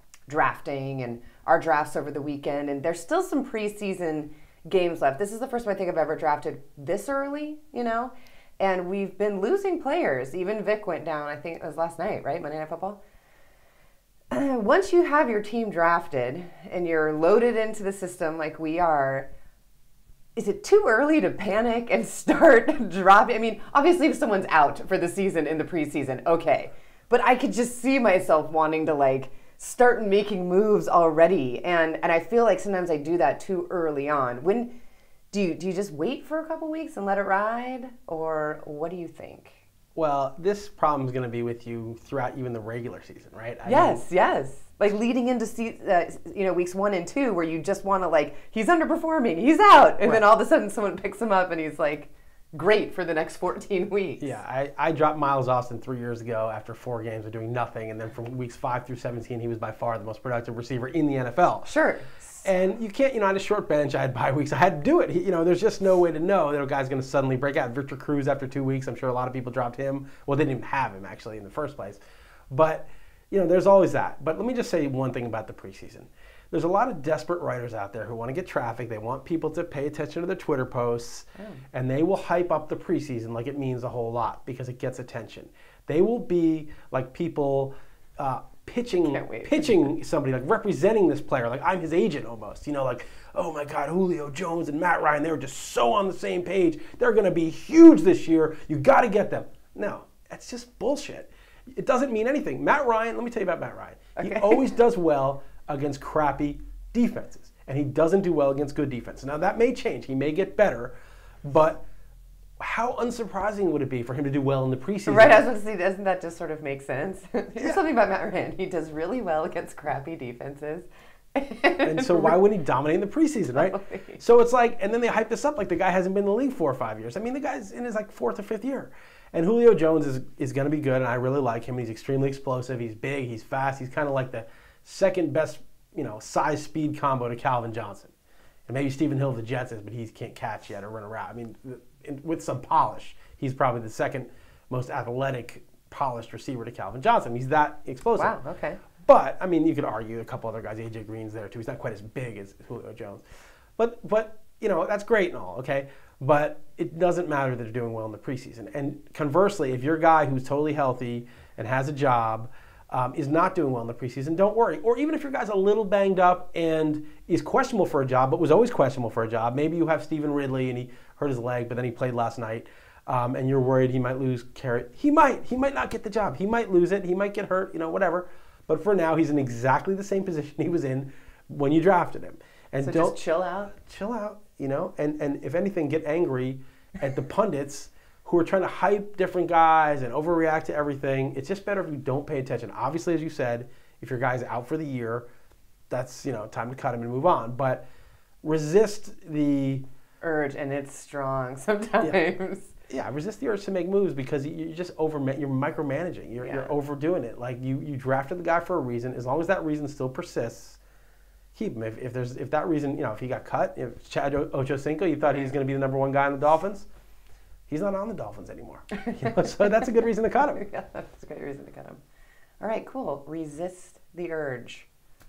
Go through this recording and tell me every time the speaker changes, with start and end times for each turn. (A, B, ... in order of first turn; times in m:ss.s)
0:00.3-0:13.0 A
0:14.3-0:19.3 A
0:20.4-0:34.7 A
0:35.3-0:39.6 A
0:40.0-0:44.0 B
0:43.6-0:54.4 A
0:54.2-1:01.7 B
1:01.6-1:02.5 A
1:02.4-1:51.8 B
1:29.1-1:29.8 A
1:44.2-1:44.6 A
1:52.6-1:55.5 B
1:55.1-2:02.4 A
2:01.8-2:18.1 B
2:03.6-2:04.2 A
2:18.7-2:28.4 B
2:28.2-2:28.8 A
2:29.0-2:33.2 B
2:33.8-3:03.2 B
3:02.8-3:03.7 A
3:03.7-3:15.3 B
3:15.9-3:17.8 B
3:18.4-3:19.8 B
3:20.2-3:22.7 A
3:22.9-3:30.8 B
3:26.4-3:26.8 A
3:31.6-3:36.9 B
3:37.7-3:40.6 B
3:39.0-3:39.9 A
3:40.4-3:42.0 A
3:42.6-3:44.9 A